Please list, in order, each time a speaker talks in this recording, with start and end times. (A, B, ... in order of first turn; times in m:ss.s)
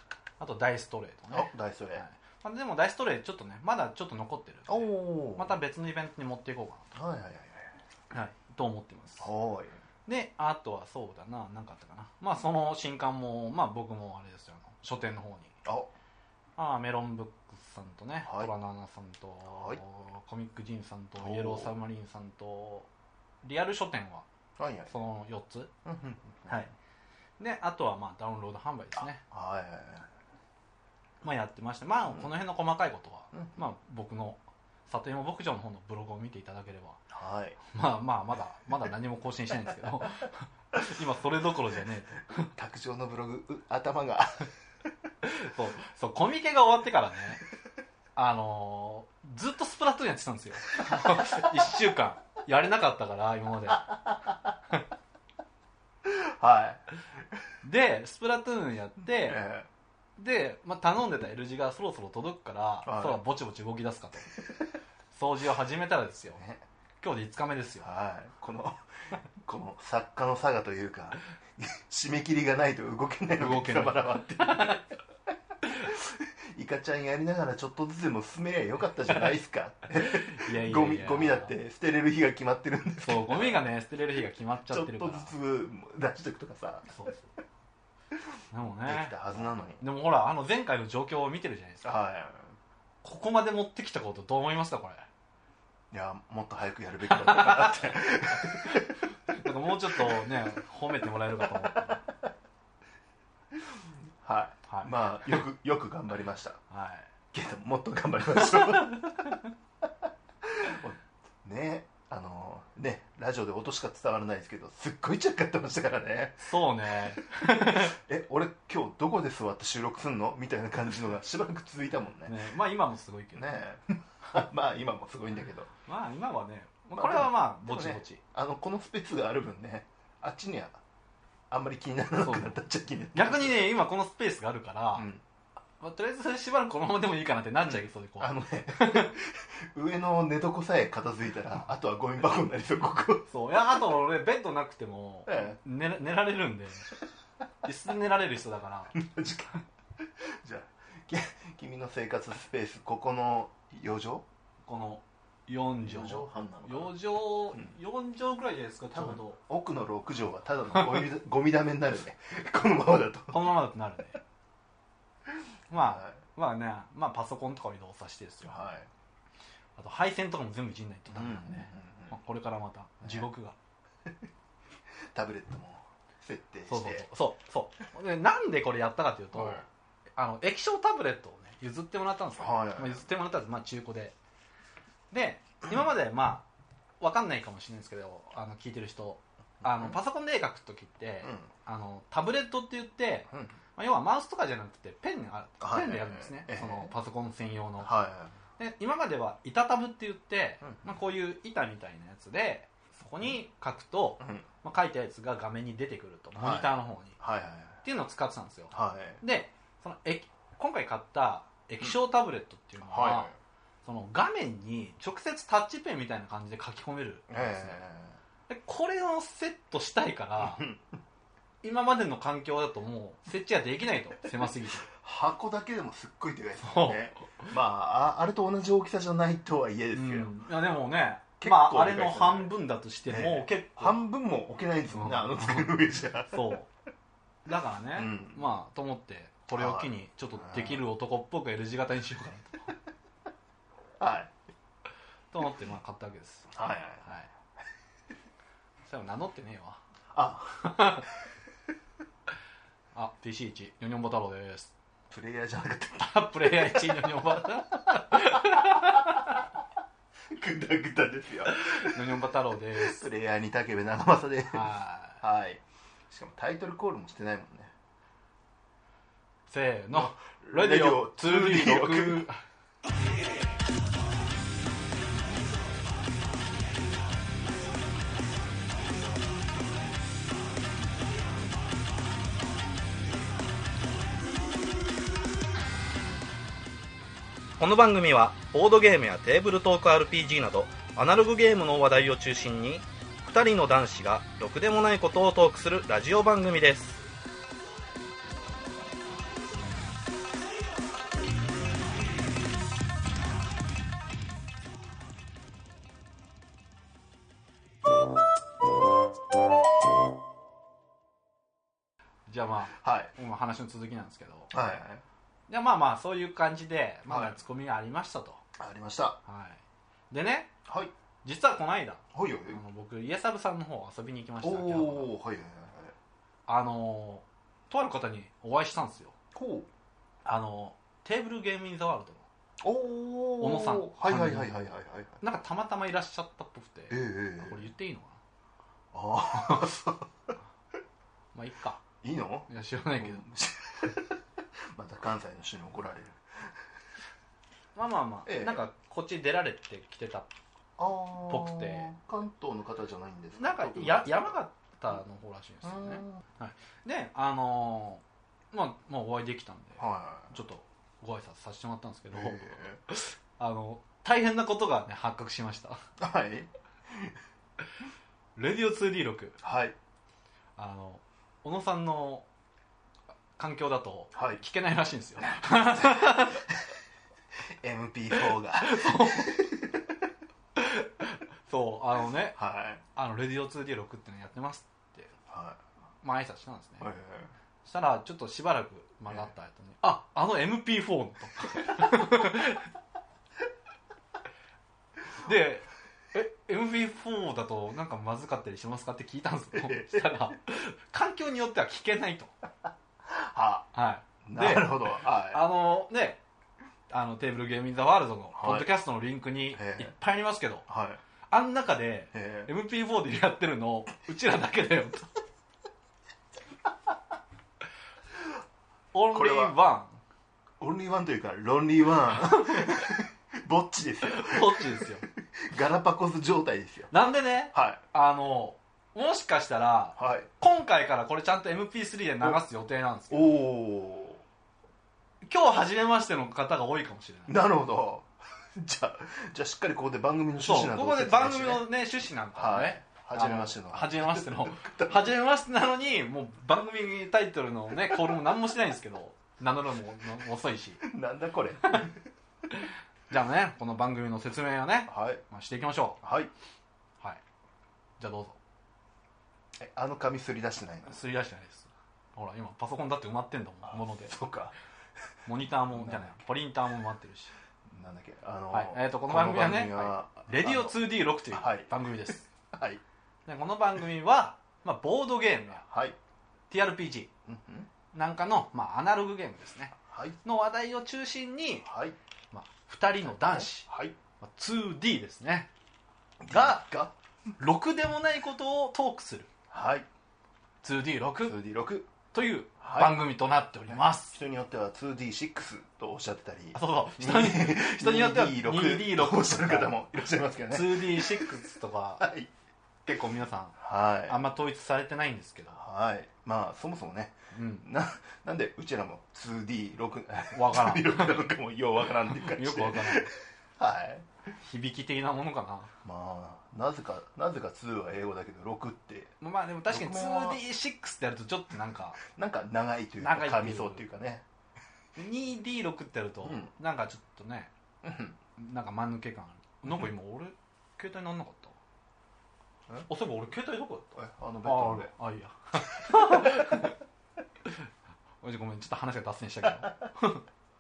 0:00.4-0:06.9 A
0:01.3-0:02.0 B
0:04.7-0:05.6 B
0:06.9-0:07.8 B
0:08.1-0:09.3 A
0:09.2-0:09.8 B
0:10.1-0:15.6 A
0:15.6-0:15.9 B
0:16.6-0:22.9 A
0:18.2-0:18.5 B
0:19.5-0:19.8 B
0:21.2-0:21.7 B
0:23.4-0:24.3 A
0:24.6-0:24.9 B
0:24.9-0:25.7 A
0:25.8-0:26.7 B
0:27.4-0:29.2 A
0:29.3-0:30.1 B
0:31.2-0:37.0 A
0:33.3-0:33.6 B
0:37.1-0:37.6 B
0:37.7-0:42.5 A
0:42.5-0:44.5 B
0:45.2-0:47.4 A
0:48.2-0:53.9 A
0:50.9-0:51.6 B
0:53.7-0:54.6 B
0:56.0-0:56.8 B
0:57.6-0:59.4 A
0:59.2-0:59.7 B
1:00.2-1:04.3 A
1:02.8-1:03.2 B
1:05.1-1:06.4 A
1:07.0-1:07.9 A
1:07.8-1:08.8 B
1:09.4-1:14.9 B
1:13.4-1:14.8 A
1:15.7-1:23.6 B
1:19.9-1:21.5 A
1:23.0-1:25.3 A
1:24.7-1:27.0 B
1:26.9-1:27.3 A
1:28.5-1:31.8 A
1:28.8-1:29.8 B
1:31.8-1:32.6 B
1:33.0-1:35.0 A
1:35.9-1:40.4 B
1:37.1-1:42.0 A
1:41.4-1:42.2 B
1:43.6-1:46.6 B
1:44.7-1:44.9 A
1:46.7-1:47.1 A
1:47.3-1:49.4 B
1:48.4-1:49.4 A
1:50.4-1:56.6 B
1:56.4-1:58.0 A
1:57.4-2:02.4 B
2:02.3-2:03.5 A
2:03.4-2:05.7 B
2:05.9-2:08.2 A
2:06.9-2:10.8 B
2:11.5-2:13.7 B
2:12.2-2:12.6 A
2:13.1-2:15.1 A
2:15.0-2:15.2 B
2:15.8-2:19.2 A
2:17.7-2:23.3 B
2:23.3-2:26.9 A
2:25.3-2:25.6 B
2:27.6-2:29.0 A
2:28.9-2:34.3 B
2:34.6-2:39.4 A
2:35.8-2:37.0 B
2:38.9-2:43.5 B
2:43.3-2:44.2 A
2:45.7-2:48.6 A
2:45.7-2:46.2 B
2:48.4-2:48.9 B
2:49.8-2:53.6 A
2:51.1-2:52.1 B
2:55.1-2:57.1 B
2:56.7-2:59.6 A
2:59.3-2:59.6 B
3:00.2-3:04.2 A
3:02.4-3:03.1 B
3:05.1-3:06.4 A
3:07.0-3:17.9 A
3:09.6-3:10.0 B
3:11.2-3:11.5 B
3:15.6-3:16.9 B
3:17.8-3:18.4 B
3:18.6-3:27.2 A
3:20.6-3:21.0 B
3:24.2-3:24.5 B
3:26.4-3:27.8 B
3:27.8-3:33.3 A
3:28.7-3:29.2 B
3:32.9-3:33.4 B
3:33.8-3:37.8 A
3:37.3-3:38.2 B
3:38.5-3:40.7 A
3:40.4-3:40.8 B
3:41.6-3:44.9 A
3:44.9-3:50.3 B
3:46.6-3:47.5 A
3:49.9-3:54.0 A
3:51.4-3:52.6 B
3:53.1-3:56.5 B
3:54.9-3:55.8 A
3:56.3-3:56.7 A
3:57.5-4:02.7 A
3:58.0-3:58.4 B
3:59.5-4:00.8 B
4:04.0-4:04.4 B
4:05.3-4:06.5 A
4:06.5-4:07.1 B
4:08.8-4:09.8 A
4:10.1-4:11.0 B
4:10.6-4:11.1 A
4:12.9-4:14.7 A
4:15.1-4:19.2 B
4:16.0-4:19.4 A
4:20.3-4:22.0 B
4:21.5-4:23.1 A
4:22.8-4:27.7 B
4:24.5-4:25.2 A
4:29.5-4:32.4 A
4:29.9-4:32.3 B
4:47.6-4:57.0 C
5:12.3-5:14.5 A
5:12.8-5:13.1 B
5:14.5-5:15.0 B
5:15.5-5:18.4 A
5:17.1-5:17.4 B
5:18.6-5:19.2 B
5:19.3-5:20.5 A
5:20.7-5:20.9 B
5:21.2-5:25.1 A
5:22.1-5:22.6 B
5:24.4-5:26.0 B
5:26.5-5:29.2 A
5:29.3-5:29.7 B
5:30.2-5:32.3 A
5:32.6-5:35.2 B
5:33.4-5:34.7 A
5:35.2-5:38.2 A
5:36.9-5:37.7 B
5:38.9-5:40.3 B
5:39.3-5:39.7 A
5:41.3-5:41.8 A
5:42.0-5:44.2 B
5:42.5-5:43.2 A
5:44.7-5:46.6 B
5:47.8-5:50.3 A
5:48.3-5:48.6 B
5:50.8-5:54.4 B
5:51.3-5:51.9 A
5:53.4-6:05.8 A
5:55.6-5:56.2 B
5:59.8-6:00.3 B
6:02.1-6:02.8 B
6:06.0-6:07.2 B
6:08.4-6:09.4 A
6:09.4-6:09.8 B
6:10.6-6:12.3 A
6:13.4-6:16.5 A
6:14.1-6:14.4 B
6:15.2-6:16.6 B
6:17.5-6:20.0 B
6:18.2-6:19.4 A
6:20.6-6:22.4 A
6:22.4-6:22.8 B
6:23.0-6:25.1 A
6:25.3-6:25.6 B
6:26.0-6:26.9 A
6:26.8-6:27.3 B
6:27.6-6:32.7 A
6:35.2-6:42.3 A
6:39.6-6:40.2 B
6:43.1-6:43.7 B
6:43.7-6:46.2 A
6:44.2-6:45.4 B
6:46.9-6:50.7 A
6:48.4-6:48.7 B
6:49.5-6:50.0 B
6:50.7-6:51.0 B
6:51.3-6:55.2 A
6:52.1-6:52.5 B
6:58.9-7:00.0 A
6:59.1-6:59.6 B
7:00.6-7:06.9 B
7:02.2-7:02.8 A
7:04.0-7:05.1 A
7:06.9-7:13.4 A
7:07.5-7:07.8 B
7:10.0-7:10.3 B
7:13.1-7:14.2 B
7:15.2-7:17.4 A
7:17.3-7:21.7 B
7:20.4-7:30.9 A
7:22.4-7:25.2 B
7:30.8-7:32.0 B
7:33.1-7:36.0 A
7:34.9-7:35.2 B
7:36.0-7:36.3 B
7:38.0-7:38.4 A
7:39.6-7:41.0 B
7:40.9-7:44.2 A
7:43.7-7:44.6 B
7:45.3-7:47.3 A
7:45.7-7:46.3 B
7:47.7-7:52.8 B
7:48.5-7:52.3 A
7:53.3-7:55.7 A
7:55.7-7:56.0 B
7:56.5-7:57.1 A
7:57.3-7:57.7 B
7:57.9-8:01.7 A
7:59.9-8:00.2 B
8:01.6-8:02.0 B
8:02.3-8:03.7 A
8:03.2-8:04.0 B
8:04.2-8:05.5 A
8:06.2-8:07.0 B
8:06.3-8:06.6 A
8:07.4-8:09.3 A
8:09.5-8:09.9 B
8:10.6-8:11.4 A
8:11.2-8:11.9 B
8:12.1-8:14.2 A
8:12.6-8:13.1 B
8:13.7-8:21.4 B
8:16.6-8:19.8 A
8:20.5-8:22.1 A
8:22.0-8:22.3 B
8:22.9-8:25.6 A
8:23.6-8:24.2 B
8:25.5-8:34.1 B
8:27.3-8:27.6 A
8:30.3-8:31.3 A
8:32.1-8:33.1 A
8:34.4-8:35.7 A
8:35.8-8:39.1 B
8:39.2-8:42.0 A
8:39.7-8:40.4 B
8:42.1-8:44.2 B
8:43.0-8:43.8 A
8:45.0-8:47.5 A
8:46.2-8:46.5 B
8:47.8-8:48.2 B
8:48.4-8:51.6 A
8:52.9-8:56.8 A
8:54.0-8:54.9 B
8:55.7-8:56.7 B
8:58.2-9:00.2 A